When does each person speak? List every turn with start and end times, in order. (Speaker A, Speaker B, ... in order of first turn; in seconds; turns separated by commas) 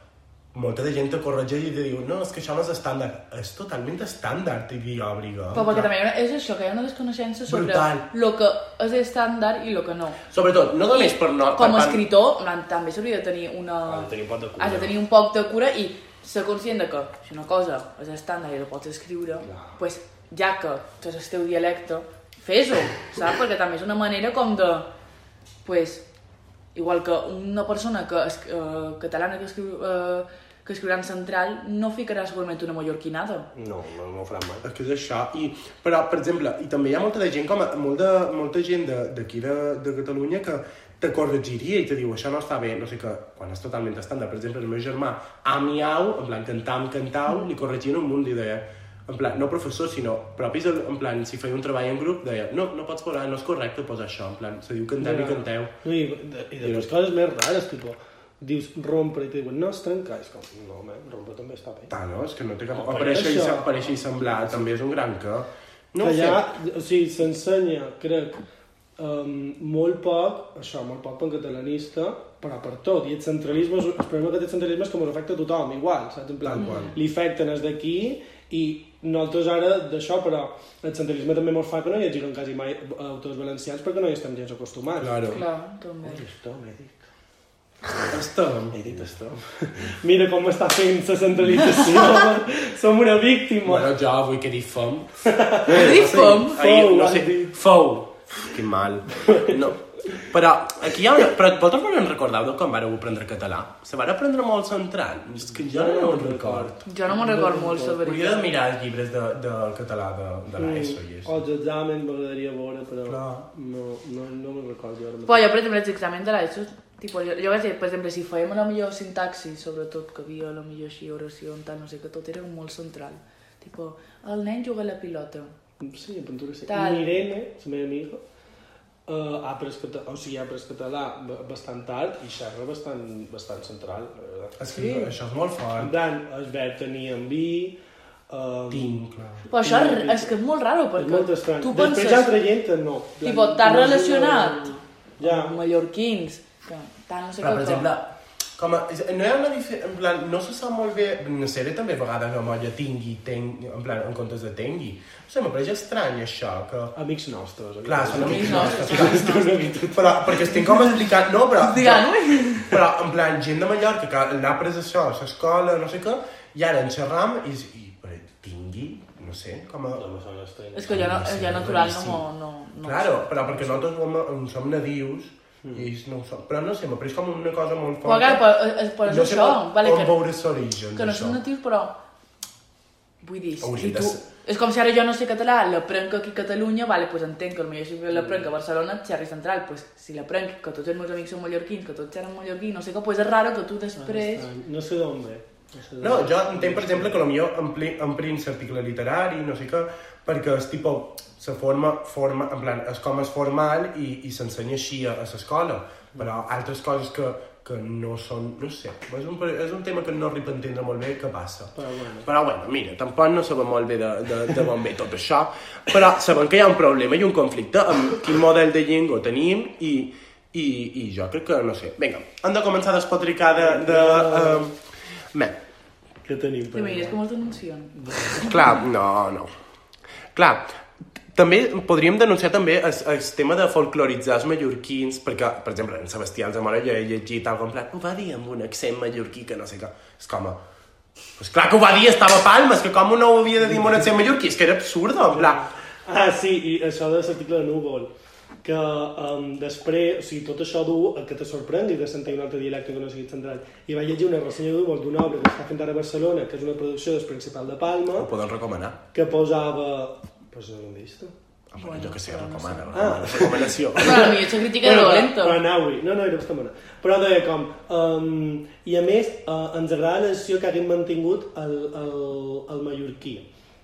Speaker A: 0.5-5.9, Speaker B: 5.5-10.2, Speaker C: 5.6-5.9, Speaker A: 7.5-8.1, Speaker A: 10.3-12.0, Speaker B: 10.9-24.9, Speaker C: 13.9-14.9, Speaker B: 25.6-26.1, Speaker B: 26.8-33.5, Speaker C: 33.5-34.6, Speaker A: 34.6-55.8, Speaker C: 55.0-61.9, Speaker A: 56.6-56.9, Speaker A: 61.9-66.4, Speaker C: 62.7-64.8, Speaker C: 66.0-68.4, Speaker C: 69.0-85.3, Speaker A: 76.4-76.9, Speaker B: 76.6-76.9, Speaker A: 85.0-85.4, Speaker B: 85.3-86.2, Speaker C: 86.0-87.1, Speaker A: 88.1-88.8, Speaker C: 88.7-93.9, Speaker A: 93.6-106.8, Speaker C: 95.2-97.6, Speaker B: 95.7-96.6, Speaker C: 99.2-99.6, Speaker C: 105.5-108.0, Speaker B: 106.9-108.5, Speaker A: 108.0-111.4, Speaker C: 110.6-115.5, Speaker A: 113.0-113.5, Speaker B: 115.3-125.5, Speaker C: 125.8-128.2, Speaker B: 126.7-127.2, Speaker C: 129.1-135.1, Speaker A: 134.6-135.9, Speaker B: 134.7-135.1, Speaker C: 135.8-137.8, Speaker C: 138.3-139.0, Speaker A: 138.7-139.5, Speaker B: 139.5-142.4, Speaker C: 139.6-140.3, Speaker C: 141.0-145.6, Speaker B: 143.2-147.9, Speaker A: 147.4-156.9, Speaker C: 156.9-160.1, Speaker A: 157.8-170.0, Speaker B: 158.1-159.7, Speaker B: 161.6-162.7, Speaker C: 169.9-171.0, Speaker B: 170.7-173.9, Speaker A: 170.9-172.2, Speaker A: 172.8-178.5, Speaker C: 175.6-175.9, Speaker B: 178.0-180.2, Speaker A: 179.0-181.4, Speaker B: 180.9-182.0, Speaker B: 183.2-194.5, Speaker A: 183.6-184.2, Speaker C: 188.1-188.5, Speaker C: 194.0-197.2, Speaker A: 196.0-224.8, Speaker C: 211.8-212.3, Speaker C: 223.6-224.7, Speaker C: 226.2-227.2, Speaker B: 226.7-228.5, Speaker C: 227.9-228.6, Speaker A: 228.4-229.5, Speaker A: 230.3-230.7, Speaker A: 231.3-240.6, Speaker A: 241.4-245.7, Speaker C: 243.7-244.0, Speaker C: 245.3-248.1, Speaker C: 248.6-258.3, Speaker A: 258.1-259.0, Speaker C: 259.1-261.3, Speaker A: 261.7-264.3, Speaker B: 261.8-263.2, Speaker C: 262.9-273.5, Speaker B: 264.0-265.6